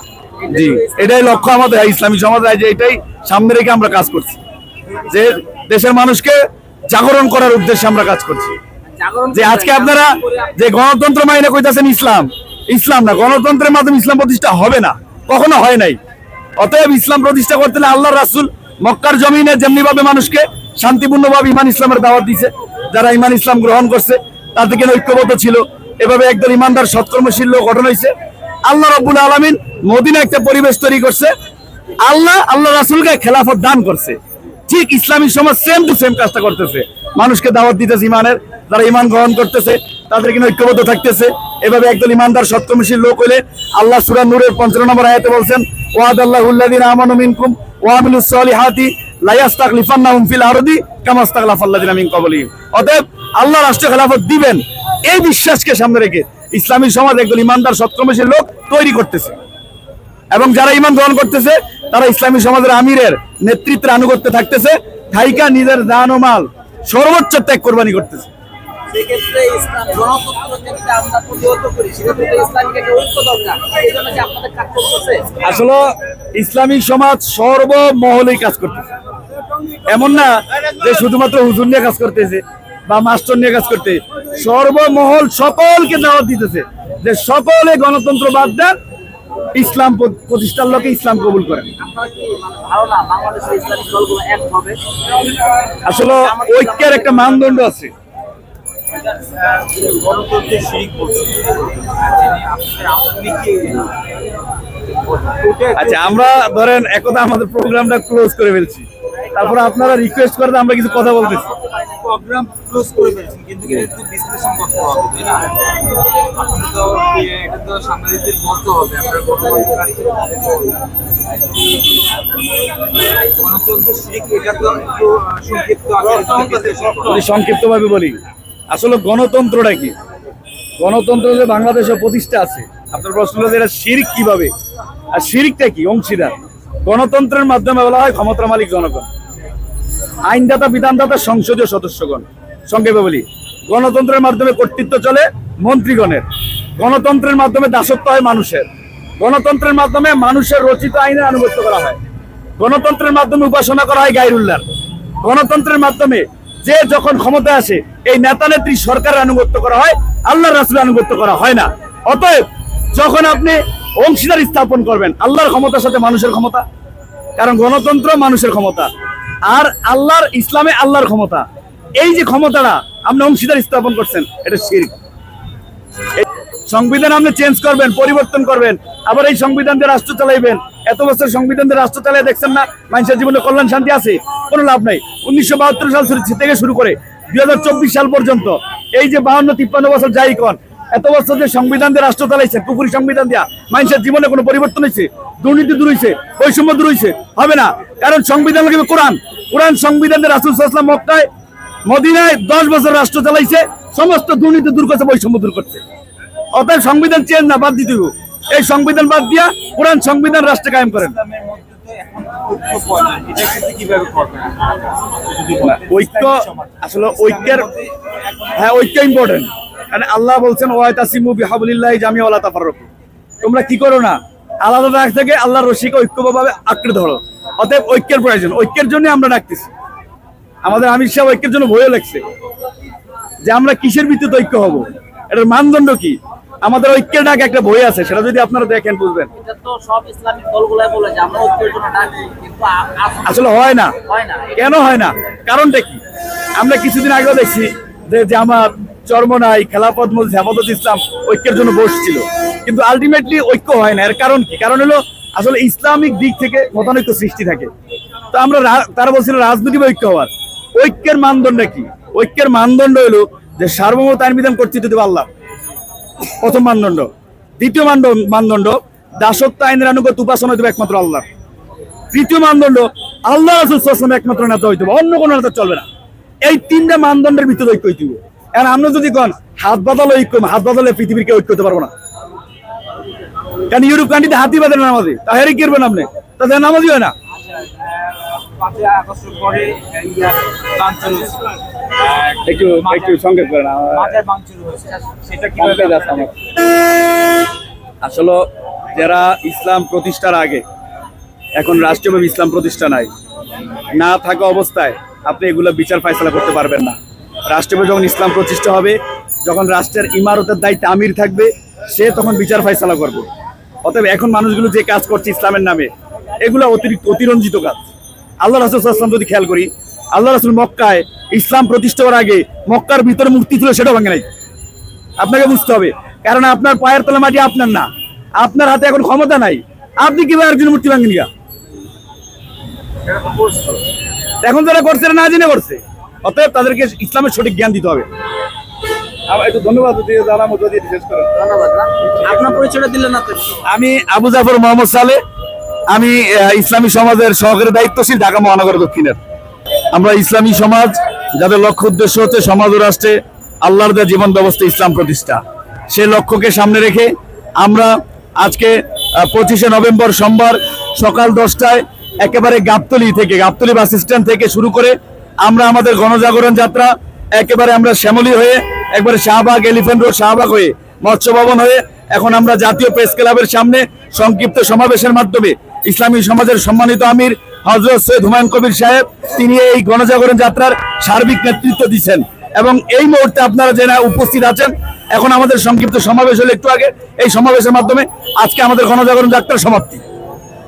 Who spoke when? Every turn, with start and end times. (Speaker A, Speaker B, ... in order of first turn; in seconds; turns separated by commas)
Speaker A: 0.4-1.4, Speaker B: 0.5-4.4, Speaker B: 5.0-8.6, Speaker A: 8.9-10.5, Speaker B: 9.3-16.0, Speaker B: 16.6-28.1, Speaker B: 28.6-31.3, Speaker B: 32.0-59.4, Speaker B: 60.3-68.3, Speaker A: 68.9-75.4, Speaker B: 75.4-78.9, Speaker B: 79.8-88.7, Speaker B: 89.5-91.7, Speaker A: 91.8-94.8, Speaker B: 95.8-97.9, Speaker A: 95.9-97.5, Speaker C: 99.2-103.9, Speaker C: 105.0-106.2, Speaker B: 105.8-111.5, Speaker C: 111.6-115.6, Speaker C: 116.2-120.5, Speaker C: 123.3-127.2, Speaker B: 127.1-128.2, Speaker B: 128.7-129.9, Speaker B: 130.8-134.5, Speaker B: 135.1-139.1, Speaker B: 140.2-146.2, Speaker B: 146.8-148.7, Speaker B: 149.2-152.0, Speaker B: 152.6-154.6, Speaker B: 155.2-166.6, Speaker B: 167.4-168.9, Speaker B: 169.5-171.4, Speaker B: 172.0-174.9, Speaker B: 176.2-201.3, Speaker B: 201.8-205.8, Speaker B: 206.5-211.2, Speaker C: 211.1-217.9, Speaker B: 215.6-217.7, Speaker B: 218.5-222.9, Speaker B: 223.4-229.7, Speaker B: 230.6-232.2, Speaker B: 233.4-239.3, Speaker A: 239.4-243.3, Speaker B: 243.2-243.9, Speaker A: 244.0-244.6, Speaker B: 244.5-246.0, Speaker B: 246.6-257.7, Speaker B: 258.3-265.3, Speaker B: 266.4-271.3, Speaker B: 272.1-275.9, Speaker B: 276.4-281.9, Speaker B: 283.7-287.1, Speaker C: 287.5-293.2, Speaker B: 292.4-294.2, Speaker C: 293.9-296.3, Speaker B: 295.6-296.3, Speaker B: 298.0-300.6, Speaker B: 301.6-303.1, Speaker B: 303.9-313.2, Speaker B: 313.8-315.9, Speaker B: 316.4-317.9, Speaker B: 318.4-324.2, Speaker B: 325.2-331.3, Speaker C: 333.1-333.8, Speaker B: 334.4-338.1, Speaker B: 339.3-341.3, Speaker A: 341.3-343.6, Speaker B: 343.6-345.2, Speaker B: 345.9-349.2, Speaker B: 349.9-390.0